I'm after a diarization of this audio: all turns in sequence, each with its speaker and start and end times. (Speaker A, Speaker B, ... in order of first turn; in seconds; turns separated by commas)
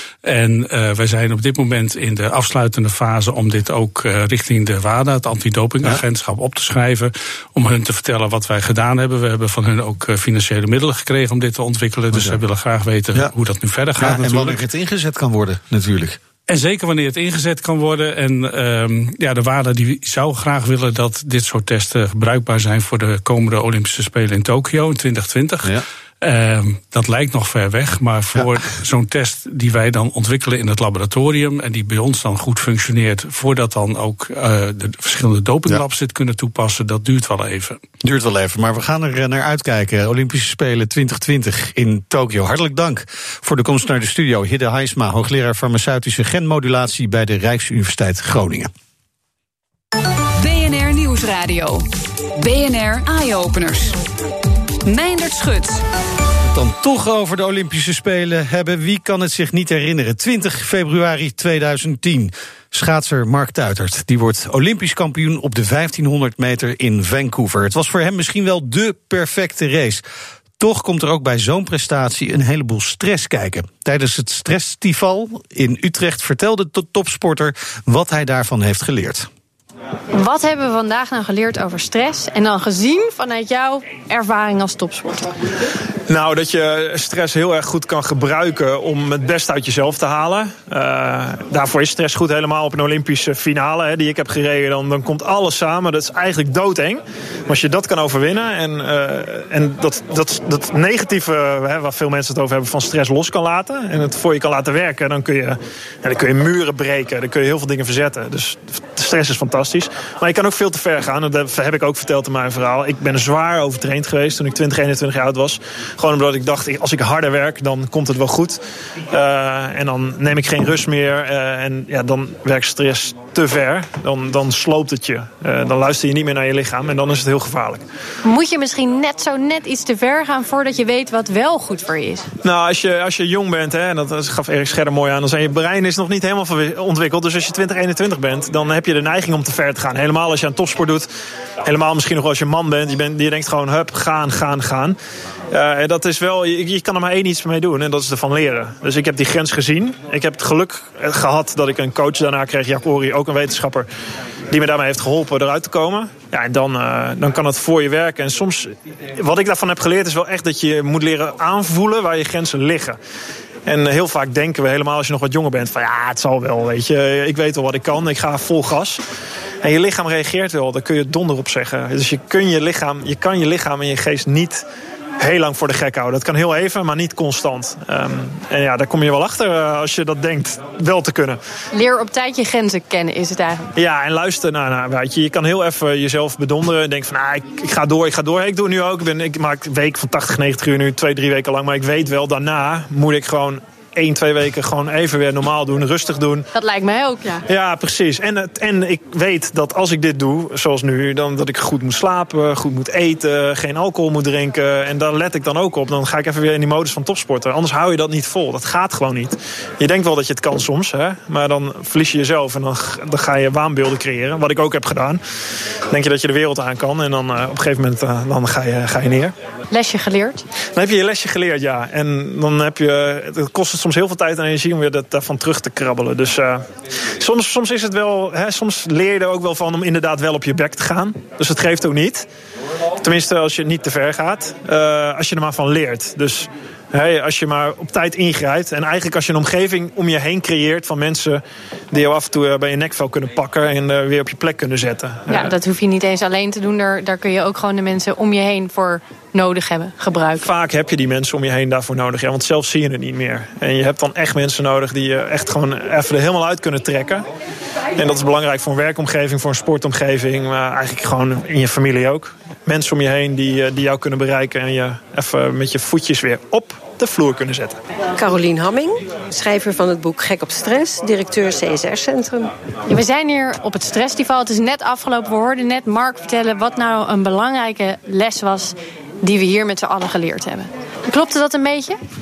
Speaker A: 0.2-14.6, Speaker B: 12.1-12.4, Speaker B: 14.0-16.2, Speaker A: 16.5-37.8, Speaker B: 38.0-48.7, Speaker C: 50.4-54.0, Speaker C: 54.8-55.8, Speaker B: 56.5-70.0, Speaker B: 70.6-79.3, Speaker D: 80.1-85.3, Speaker E: 86.1-127.8, Speaker D: 128.2-132.3, Speaker E: 132.4-141.1, Speaker E: 141.6-145.0, Speaker E: 145.5-153.9, Speaker E: 154.5-163.0, Speaker E: 163.7-169.0, Speaker E: 169.6-174.6, Speaker E: 175.2-181.4, Speaker D: 181.7-183.7, Speaker E: 183.8-196.5, Speaker D: 196.5-197.4, Speaker E: 197.5-215.2, Speaker E: 215.9-219.3, Speaker D: 219.7-220.4, Speaker E: 220.7-226.6, Speaker E: 227.2-232.3, Speaker E: 233.0-245.5, Speaker D: 245.3-250.4, Speaker E: 250.4-257.2, Speaker E: 257.9-267.8, Speaker F: 268.1-272.5, Speaker D: 272.9-282.0